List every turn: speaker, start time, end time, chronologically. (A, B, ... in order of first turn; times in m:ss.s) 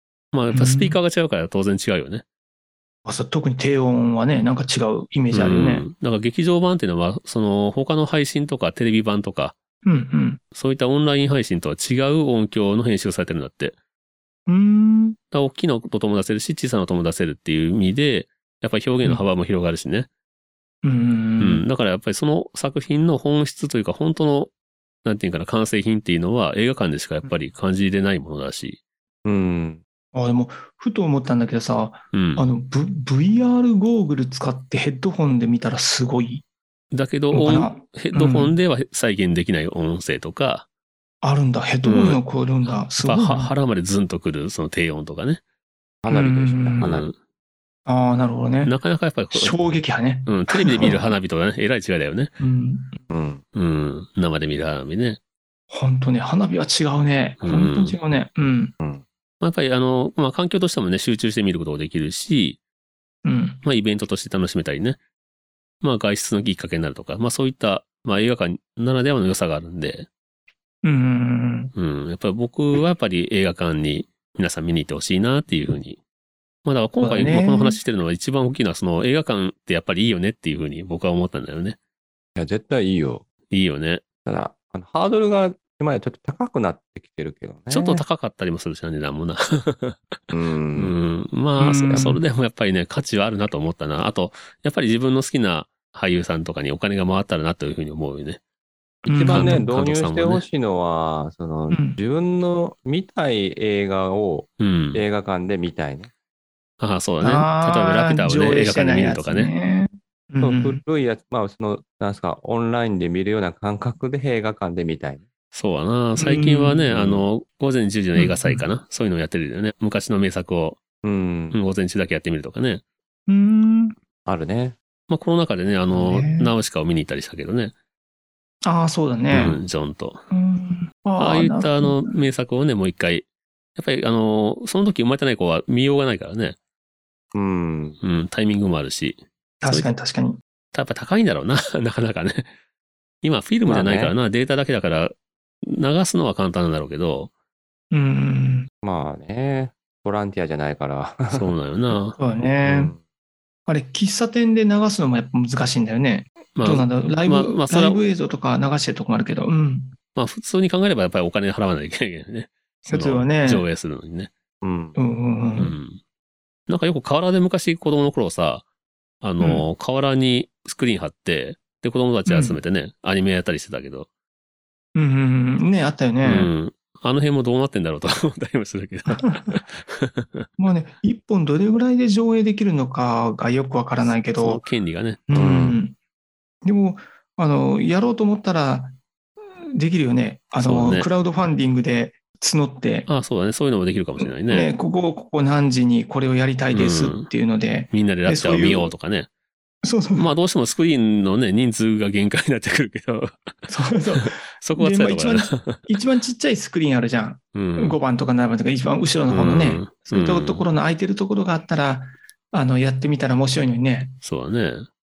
0:00.3-0:02.2 A
0:00.5-0:01.0 B
0:03.0-0:05.8 B
0:05.3-0:09.5 A
0:09.8-0:10.4 B
0:10.5-0:13.8 A
0:14.5-0:15.2 B
0:15.3-0:20.1 A
0:20.8-0:21.6 B
0:21.4-0:24.5 A
0:25.0-0:28.8 A
0:29.2-0:29.8 C
0:30.1-0:36.4 B
0:32.1-0:32.4 A
0:36.9-0:40.6 A
0:37.3-0:38.5 B
0:41.2-0:43.5 B
0:41.8-0:45.4 A
0:46.0-0:47.1 C
0:46.1-0:46.8 B
0:46.8-0:47.1 A
0:47.8-0:48.7 B
0:48.6-0:49.7 A
0:49.3-0:51.1 B
0:50.2-0:52.3 A
0:52.4-0:53.0 B
0:53.1-0:53.4 C
0:53.5-0:55.2 A
0:55.7-0:58.7 B
0:57.4-0:58.0 A
0:58.8-0:59.0 C
0:59.4-1:02.6 A
1:03.2-1:03.6 B
1:03.6-1:05.0 A
1:05.8-1:10.1 A
1:10.8-1:11.7 B
1:11.8-1:16.0 A
1:16.6-1:21.8 A
1:17.0-1:17.8 B
1:22.4-1:23.2 C
1:23.5-1:24.0 A
1:24.2-1:28.0 C
1:27.7-1:30.2 A
1:30.3-1:31.0 C
1:30.8-1:38.4 A
1:31.6-1:32.2 B
1:39.0-1:39.7 B
1:39.1-1:46.1 C
1:39.3-1:40.4 A
1:41.7-1:42.0 B
1:44.6-1:45.0 A
1:46.8-1:49.5 A
1:47.2-1:50.8 B
1:50.4-1:55.2 C
1:55.5-2:00.8 A
1:56.2-1:57.2 B
1:58.1-1:58.6 B
2:01.0-2:01.6 C
2:01.5-2:02.8 A
2:03.3-2:03.9 B
2:04.2-2:04.8 C
2:05.1-2:07.7 A
2:05.9-2:06.5 B
2:08.6-2:09.5 B
2:09.3-2:09.6 C
2:09.3-2:10.2 A
2:10.3-2:12.1 B
2:11.2-2:16.6 A
2:17.3-2:18.0 C
2:18.0-2:19.9 A
2:19.6-2:20.4 B
2:20.7-2:22.5 A
2:23.2-2:27.3 A
2:23.6-2:24.1 C
2:27.9-2:28.7 B
2:28.8-2:31.5 C
2:31.3-2:32.2 A
2:32.2-2:32.9 B
2:32.6-2:33.0 C
2:33.7-2:39.9 B
2:36.6-2:38.0 A
2:40.1-2:44.3 A
2:42.9-2:43.6 B
2:44.6-2:45.0 C
2:45.0-2:45.7 B
2:45.6-2:46.0 A
2:46.7-2:48.6 A
2:49.2-2:54.1 A
2:49.4-2:49.6 B
2:52.2-2:52.6 B
2:54.9-2:56.5 B
2:56.2-3:00.5 A
2:59.2-2:59.6 B
3:00.6-3:04.6 B
3:04.0-3:05.2 A
3:05.3-3:06.0 B
3:05.3-3:05.8 C
3:06.6-3:08.9 B
3:09.5-3:13.1 B
3:10.6-3:11.1 A
3:13.1-3:14.7 A
3:14.2-3:18.9 B
3:16.7-3:17.3 A
3:17.9-3:19.3 A
3:19.8-3:20.3 B
3:20.1-3:23.5 A
3:23.7-3:34.2 B
3:24.1-3:25.9 A
3:27.5-3:28.0 A
3:29.3-3:30.6 A
3:34.2-3:34.9 A